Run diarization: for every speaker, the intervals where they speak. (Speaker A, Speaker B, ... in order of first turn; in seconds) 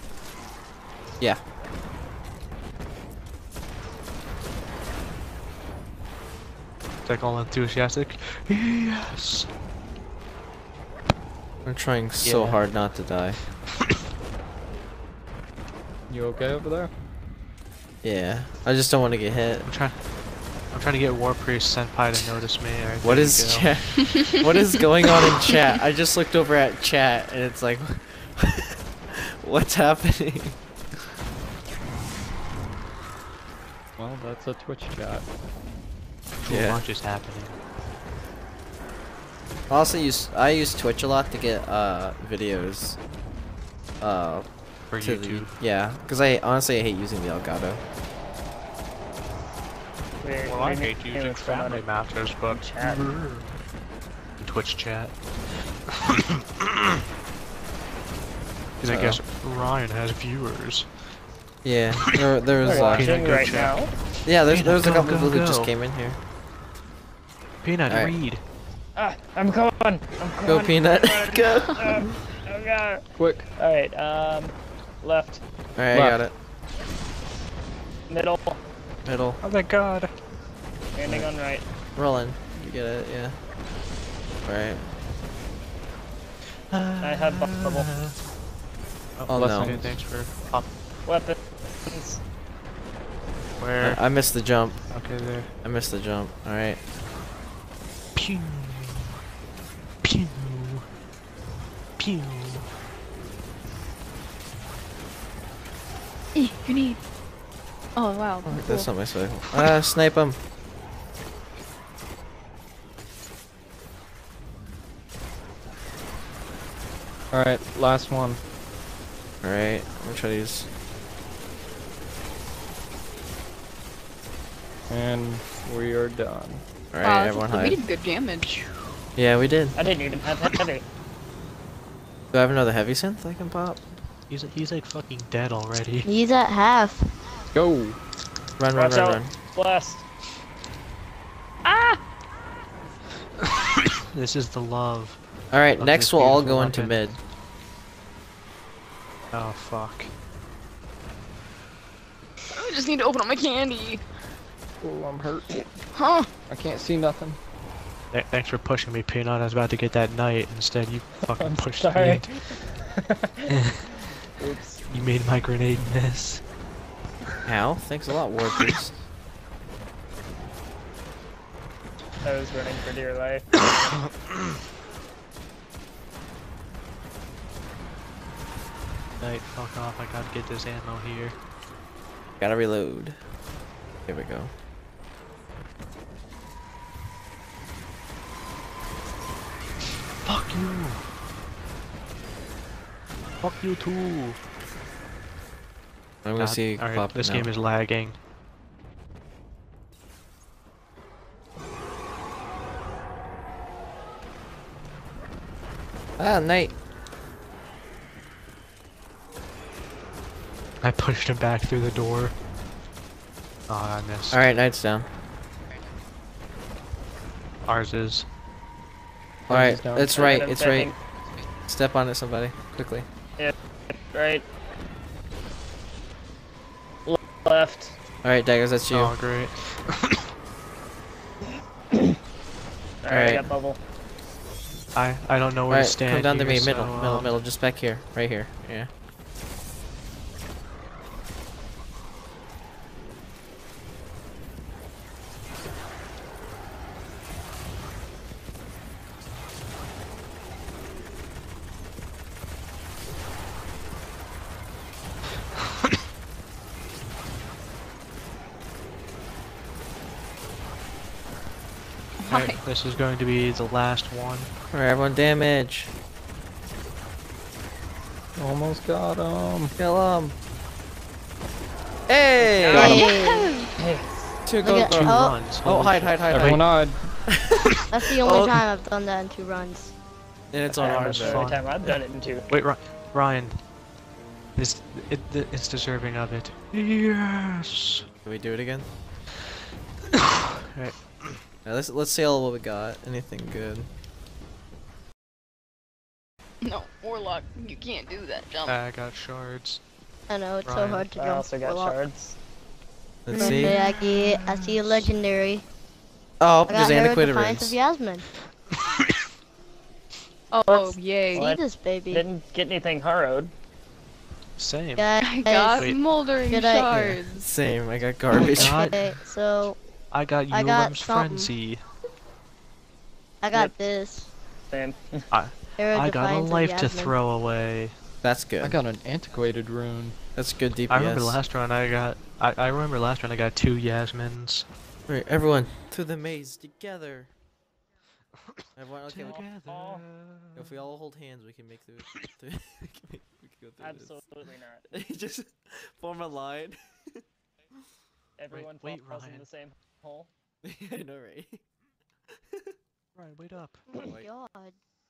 Speaker A: 7.0-9.5, 12.2-12.9, 19.6-23.7, 36.4-37.6, 44.9-45.5, 50.5-53.5, 54.4-56.1, 58.8-61.2, 62.6-65.7, 67.6-68.4, 79.4-80.1, 86.5-88.2, 89.1-90.7, 93.6-94.0, 94.9-95.5, 98.1-99.1, 100.0-100.9, 102.0-102.7, 134.3-136.1, 144.0-145.2, 145.8-147.1, 149.3-150.1, 158.1-162.7, 163.5-164.1, 164.9-166.5, 179.2-181.4, 190.2-191.1, 193.4-194.4, 196.4-198.2, 210.8-212.3, 213.7-214.4, 217.6-218.3, 228.9-230.2, 234.9-237.3, 262.3-264.5, 274.7-276.9, 280.7-283.6, 284.6-288.0, 290.6-291.4, 298.6-299.8, 300.6-301.1, 303.3-305.1, 314.6-315.1, 315.7-316.0, 318.3-319.2, 320.1-321.9, 325.3-327.9, 330.9-334.7, 339.1-340.8, 348.5-349.4, 353.1-353.8
Speaker B: 11.6-13.4, 18.0-19.7, 23.0-30.6, 36.5-36.8, 39.7-43.0, 44.0-47.8, 58.9-59.2, 61.6-63.1, 64.2-66.2, 67.9-68.2, 70.4-72.2, 75.8-76.3, 79.0-79.4, 81.9-83.4, 84.4-84.9, 89.2-89.9, 93.8-96.8, 108.4-110.4, 119.4-120.7, 126.9-127.8, 129.2-129.8, 132.3-134.0, 138.6-139.3, 145.5-147.2, 167.4-169.0, 182.4-183.2, 184.1-184.5, 196.2-197.5, 206.2-206.8, 214.3-215.1, 219.5-221.0, 221.7-223.1, 228.2-229.2, 233.1-233.5, 235.7-238.9, 264.7-265.9, 269.8-270.4, 272.1-273.1, 274.4-278.6, 280.5-281.5, 288.2-288.9, 291.6-293.9, 303.2-303.8, 306.4-307.8, 317.4-318.9, 328.2-328.8, 330.3-331.4, 335.1-337.3, 338.8-339.4, 340.6-344.3, 344.8-347.2, 350.6-351.6, 353.9-354.3
Speaker C: 16.1-16.9, 34.0-35.3, 73.1-73.5, 75.9-76.2, 89.3-89.9, 117.3-118.4, 124.9-126.6, 137.5-138.0, 154.8-155.6, 156.4-157.4, 219.5-220.1, 268.4-269.8, 276.3-277.3, 328.6-330.2
Speaker D: 50.2-53.2, 62.6-63.9, 69.0-75.4, 78.1-78.6, 80.9-81.7, 87.0-87.9, 91.0-92.2, 129.8-130.8, 138.7-140.1, 141.7-142.0, 161.3-163.6, 164.4-164.8, 172.2-173.7, 220.1-221.0, 223.4-224.5, 227.1-228.0, 233.0-233.8, 272.4-273.0, 273.8-274.3, 280.8-282.5, 301.1-302.4, 310.7-313.5, 324.7-325.3, 339.2-340.0, 343.8-344.8, 348.4-350.3
Speaker E: 106.3-107.0, 108.0-109.1, 127.0-128.7, 152.5-154.0, 155.9-156.3, 262.2-262.6, 273.2-273.6, 296.6-298.8, 303.3-303.8, 310.5-311.5, 315.2-317.5
Speaker F: 136.1-137.1, 272.7-273.5, 274.6-275.4, 277.9-279.9, 300.3-302.0, 303.5-305.6, 306.7-308.3, 311.3-312.3, 314.9-315.9, 316.5-317.2, 318.5-319.8, 320.5-321.5, 323.4-324.3, 325.8-327.2, 353.9-354.8